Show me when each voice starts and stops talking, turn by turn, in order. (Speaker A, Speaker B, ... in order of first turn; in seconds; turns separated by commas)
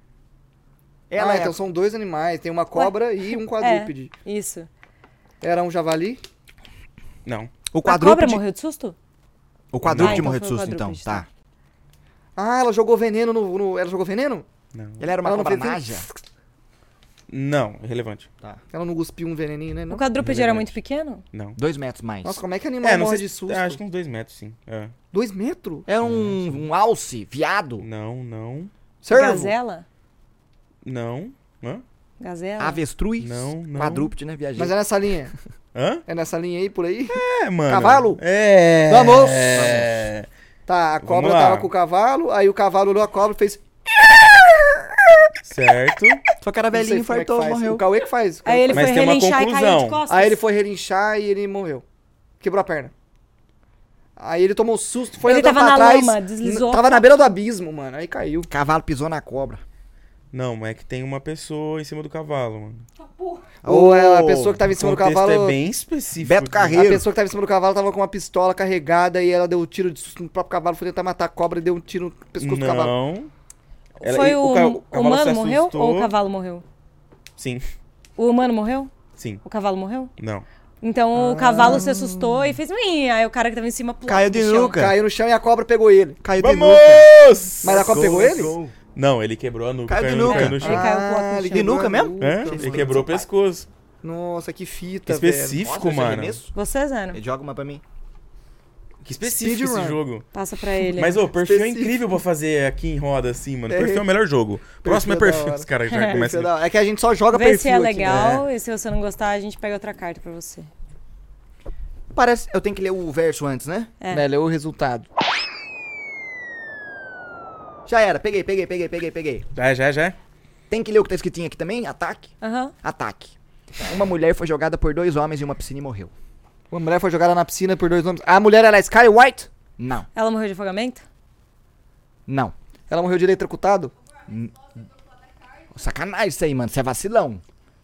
Speaker A: 1.1-1.6, Speaker B: 1.2-4.1, Speaker C: 3.6-4.7, Speaker B: 5.4-6.2, Speaker D: 7.3-7.5, Speaker A: 7.7-8.4, Speaker C: 7.8-9.0, Speaker A: 9.7-11.3, Speaker D: 9.8-10.3, Speaker C: 10.0-11.2, Speaker B: 12.4-14.5, Speaker D: 14.7-15.0, Speaker A: 15.0-16.1, Speaker B: 15.2-16.2, Speaker D: 17.3-18.3, Speaker B: 18.7-20.0, Speaker C: 19.9-21.2, Speaker D: 20.2-20.8, Speaker D: 21.3-21.6, Speaker A: 21.6-22.4, Speaker B: 22.2-23.8, Speaker D: 22.8-24.9, Speaker B: 25.1-25.9, Speaker A: 25.9-27.9, Speaker D: 26.0-26.5, Speaker D: 27.8-28.7, Speaker B: 29.0-29.5, Speaker C: 29.1-29.9, Speaker D: 30.9-31.8, Speaker C: 32.2-32.8, Speaker A: 32.6-34.7, Speaker D: 33.2-34.1, Speaker B: 34.6-35.3, Speaker D: 35.8-36.0, Speaker B: 36.1-38.2, Speaker D: 37.1-40.3, Speaker B: 38.9-39.6, Speaker A: 39.5-40.0, Speaker B: 40.7-45.3, Speaker D: 41.0-41.7, Speaker D: 45.5-46.2, Speaker A: 46.4-47.9, Speaker B: 46.7-49.0, Speaker C: 48.5-50.4, Speaker D: 48.7-50.0, Speaker B: 50.1-51.8, Speaker B: 52.4-52.9, Speaker B: 54.2-58.5, Speaker C: 55.2-57.0, Speaker A: 58.5-59.6, Speaker D: 60.3-62.9, Speaker A: 63.6-64.6, Speaker B: 63.6-65.6, Speaker D: 64.7-66.8, Speaker A: 66.2-67.1, Speaker B: 66.8-72.9, Speaker D: 72.4-73.3, Speaker C: 74.0-76.6, Speaker D: 74.0-76.1, Speaker D: 77.4-77.6, Speaker C: 78.2-78.9, Speaker D: 79.2-79.4, Speaker C: 79.4-80.1, Speaker D: 80.2-80.5, Speaker C: 80.8-84.8, Speaker B: 81.2-82.1, Speaker A: 84.0-85.0, Speaker B: 84.8-86.2, Speaker A: 86.2-87.1, Speaker D: 86.4-90.9, Speaker B: 87.6-88.5, Speaker A: 87.6-88.7, Speaker A: 89.9-90.6, Speaker C: 90.2-91.8, Speaker B: 90.6-93.0, Speaker A: 91.5-93.3, Speaker D: 92.2-93.7, Speaker B: 94.0-95.6, Speaker D: 95.1-96.4, Speaker A: 95.6-96.5, Speaker C: 96.5-97.2, Speaker A: 97.1-97.8, Speaker D: 99.0-100.3, Speaker B: 99.4-100.0, Speaker C: 100.3-101.2, Speaker D: 101.0-106.5, Speaker B: 101.3-102.2, Speaker B: 103.7-104.1, Speaker B: 104.8-108.4, Speaker C: 105.9-106.2, Speaker C: 107.3-110.7, Speaker D: 108.0-108.5, Speaker A: 112.1-113.9, Speaker B: 114.1-115.1, Speaker A: 117.9-119.5, Speaker D: 119.6-120.2, Speaker A: 120.7-126.1, Speaker C: 122.4-122.7, Speaker B: 126.7-129.5, Speaker A: 129.8-130.1, Speaker C: 130.2-131.1, Speaker A: 132.3-132.5, Speaker B: 132.9-133.9, Speaker A: 134.3-134.9, Speaker A: 135.7-137.4